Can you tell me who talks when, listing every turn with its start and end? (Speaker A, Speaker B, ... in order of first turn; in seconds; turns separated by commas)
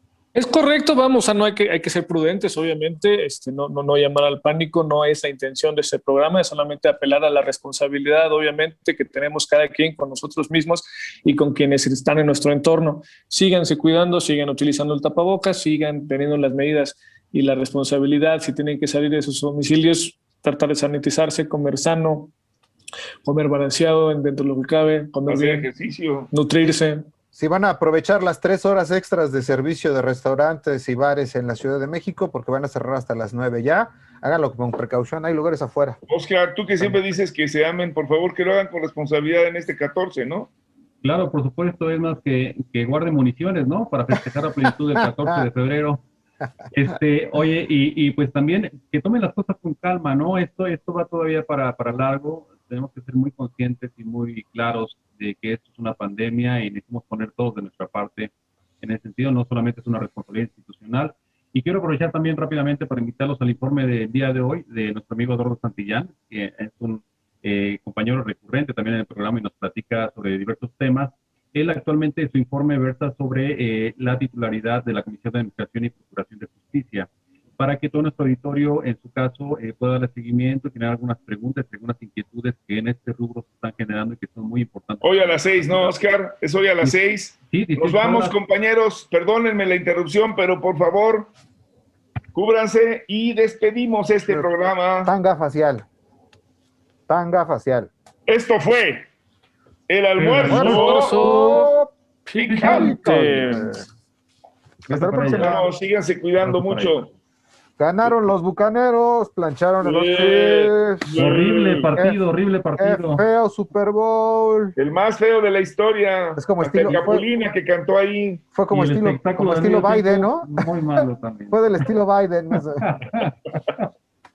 Speaker A: 0.3-22.3, Speaker A: 23.2-25.6, Speaker B: 25.3-26.3, Speaker A: 26.3-27.0, Speaker C: 27.3-36.0, Speaker B: 36.1-40.5, Speaker D: 41.0-46.0, Speaker C: 45.0-45.4, Speaker D: 46.7-85.9, Speaker B: 85.0-91.3, Speaker D: 87.5-88.3, Speaker B: 92.3-95.1, Speaker C: 95.0-95.8, Speaker C: 97.1-97.9, Speaker B: 98.3-99.1, Speaker B: 99.9-101.3, Speaker D: 100.2-101.1, Speaker C: 100.5-101.9, Speaker A: 100.5-101.7, Speaker A: 102.3-103.8, Speaker D: 102.5-103.0, Speaker C: 102.5-103.8, Speaker C: 104.9-105.6, Speaker D: 104.9-105.6, Speaker B: 105.3-107.1, Speaker D: 106.4-107.0, Speaker C: 107.8-111.2, Speaker B: 109.8-111.9, Speaker D: 111.1-113.2, Speaker C: 112.8-114.7, Speaker B: 114.8-118.4, Speaker C: 116.4-117.2, Speaker C: 118.5-120.5, Speaker D: 118.7-121.8, Speaker C: 121.5-123.2, Speaker D: 122.8-123.8